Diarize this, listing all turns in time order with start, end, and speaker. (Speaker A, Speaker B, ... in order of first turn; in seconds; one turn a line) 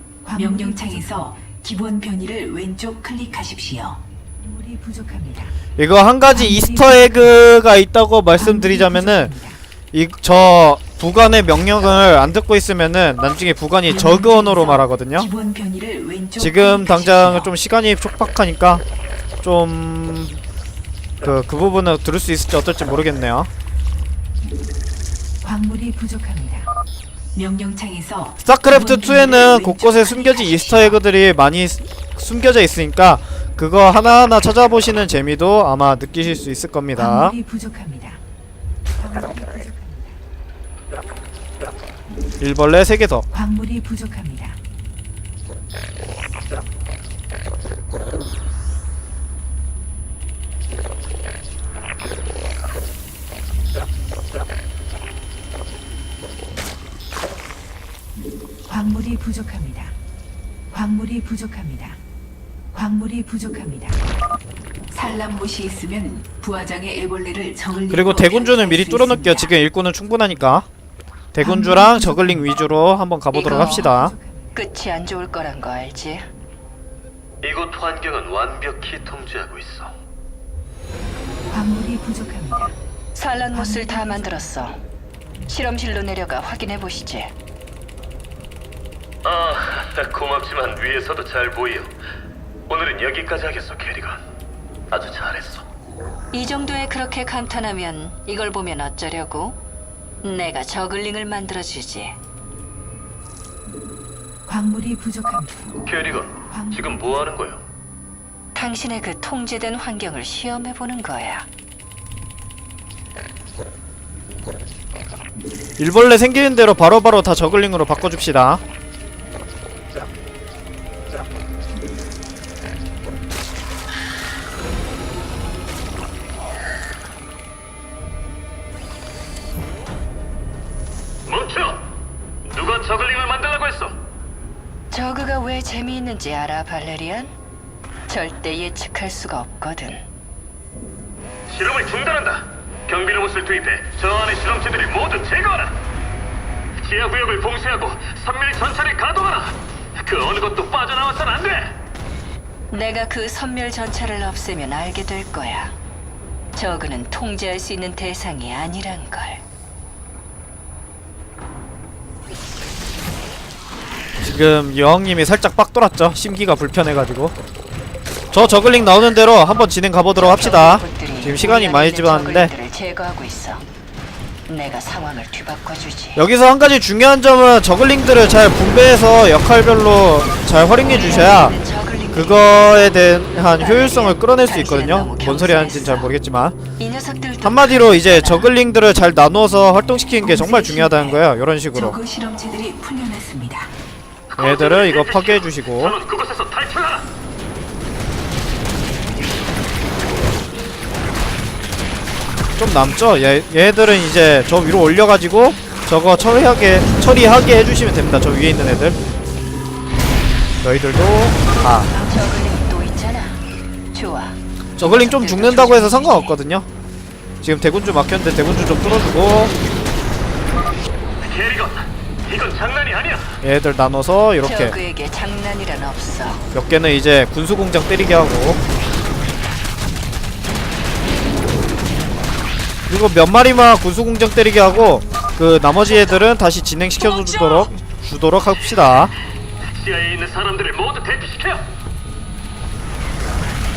Speaker A: 0.2-5.5
Speaker B: 5.8-9.4
Speaker A: 8.4-9.6
Speaker B: 9.9-15.3
Speaker A: 13.9-17.5
Speaker B: 16.4-18.8
Speaker B: 19.4-20.4
Speaker B: 21.2-23.5
Speaker A: 25.4-26.7
Speaker A: 27.4-31.0
Speaker B: 28.4-37.4
Speaker A: 37.1-38.2
Speaker A: 39.0-40.0
Speaker B: 42.4-43.3
Speaker A: 58.7-59.9
Speaker A: 60.7-62.0
Speaker A: 62.7-64.0
Speaker A: 64.9-69.5
Speaker B: 67.9-70.7
Speaker B: 71.3-74.2
Speaker A: 71.5-72.2
Speaker C: 73.3-73.9
Speaker C: 74.5-76.3
Speaker D: 77.4-79.9
Speaker A: 81.5-82.8
Speaker C: 83.1-84.8
Speaker C: 85.5-87.3
Speaker D: 89.2-91.9
Speaker D: 92.7-94.2
Speaker D: 94.9-95.7
Speaker C: 96.3-99.6
Speaker C: 100.2-102.2
Speaker D: 105.8-107.6
Speaker C: 108.5-111.5
Speaker B: 115.8-118.6
Speaker D: 131.3-131.9
Speaker D: 132.5-134.0
Speaker C: 134.9-137.3
Speaker C: 138.1-140.1
Speaker D: 141.5-145.8
Speaker D: 146.8-151.7
Speaker C: 152.7-155.7
Speaker C: 156.5-159.4
Speaker B: 164.2-167.3
Speaker B: 168.3-172.5
Speaker C: 170.2-173.6
Speaker C: 174.5-176.2
Speaker B: 176.2-181.6
Speaker C: 180.7-182.7
Speaker B: 182.1-186.6
Speaker C: 183.6-186.1
Speaker C: 186.8-188.5
Speaker B: 187.4-192.0
Speaker A: 190.2-191.2
Speaker A: 191.7-193.7
Speaker D: 194.3-197.1
Speaker B: 194.4-196.0
Speaker B: 202.6-209.0
Speaker B: 210.6-211.9
Speaker C: 211.6-213.4
Speaker C: 213.9-216.4
Speaker B: 214.8-216.7
Speaker B: 217.4-219.6
Speaker D: 221.2-223.4
Speaker B: 223.4-224.8
Speaker C: 224.4-226.4
Speaker B: 226.5-228.6
Speaker B: 232.9-239.1
Speaker D: 239.7-241.6